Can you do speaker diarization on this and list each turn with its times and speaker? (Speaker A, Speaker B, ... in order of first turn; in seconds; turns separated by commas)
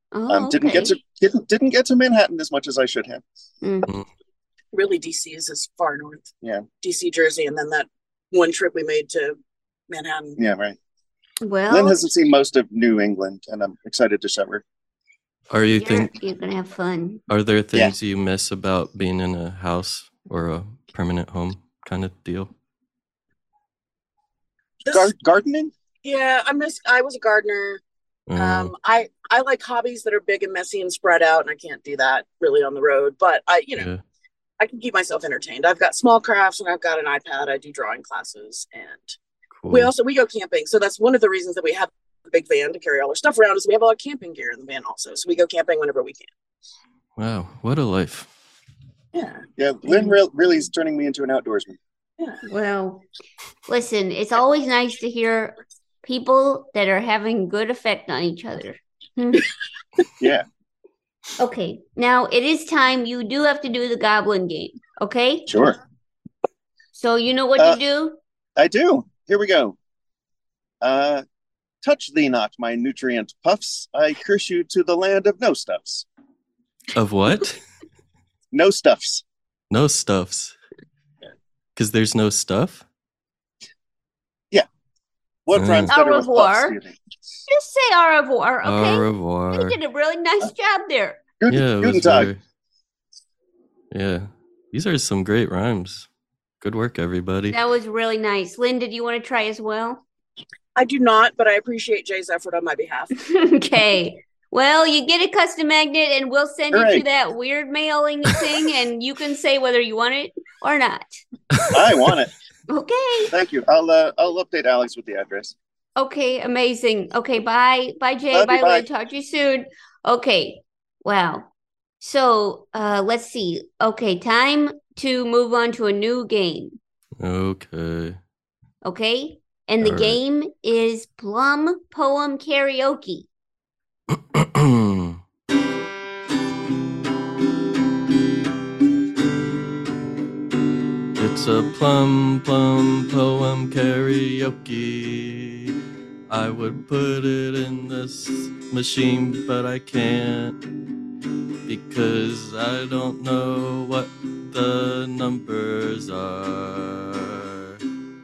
Speaker A: 0.1-1.0, Speaker B: 0.3-3.2, Speaker A: 3.6-3.9, Speaker C: 4.7-9.4, Speaker C: 9.9-10.4, Speaker B: 10.4-10.8, Speaker A: 11.4-12.1, Speaker B: 11.7-14.6, Speaker D: 15.5-16.1, Speaker A: 15.7-17.2, Speaker D: 17.3-22.5, Speaker C: 24.9-25.1, Speaker B: 24.9-25.7, Speaker C: 26.0-27.8, Speaker D: 28.3-28.7, Speaker C: 28.4-33.9, Speaker C: 34.6-39.2, Speaker D: 39.6-39.9, Speaker C: 39.7-46.3, Speaker D: 47.2-48.3, Speaker C: 49.1-49.4, Speaker B: 49.6-51.8, Speaker A: 52.4-53.0, Speaker A: 53.7-59.5, Speaker B: 60.2-60.4, Speaker A: 61.4-65.5, Speaker B: 65.5-65.8, Speaker A: 66.9-68.2, Speaker B: 68.6-69.8, Speaker B: 70.8-71.2, Speaker B: 71.8-76.0, Speaker D: 76.9-77.6, Speaker B: 78.5-79.2, Speaker D: 79.7-80.5, Speaker D: 81.8-82.8, Speaker B: 85.5-87.0, Speaker D: 85.5-85.9, Speaker A: 85.9-86.8, Speaker A: 87.5-91.2, Speaker D: 88.6-89.8, Speaker B: 91.4-92.3, Speaker D: 91.5-92.4, Speaker D: 93.9-96.1, Speaker D: 96.6-97.6, Speaker A: 97.5-100.0, Speaker C: 100.8-103.1, Speaker A: 103.2-111.2, Speaker B: 106.7-107.0, Speaker B: 111.7-112.3, Speaker A: 112.7-113.3, Speaker B: 113.3-115.5, Speaker A: 116.0-121.5, Speaker B: 118.3-118.8, Speaker A: 122.0-126.8, Speaker D: 127.2-128.2, Speaker A: 128.8-133.3, Speaker D: 129.8-130.2, Speaker D: 134.1-135.2, Speaker D: 141.2-145.8, Speaker D: 146.3-150.6, Speaker D: 151.7-157.8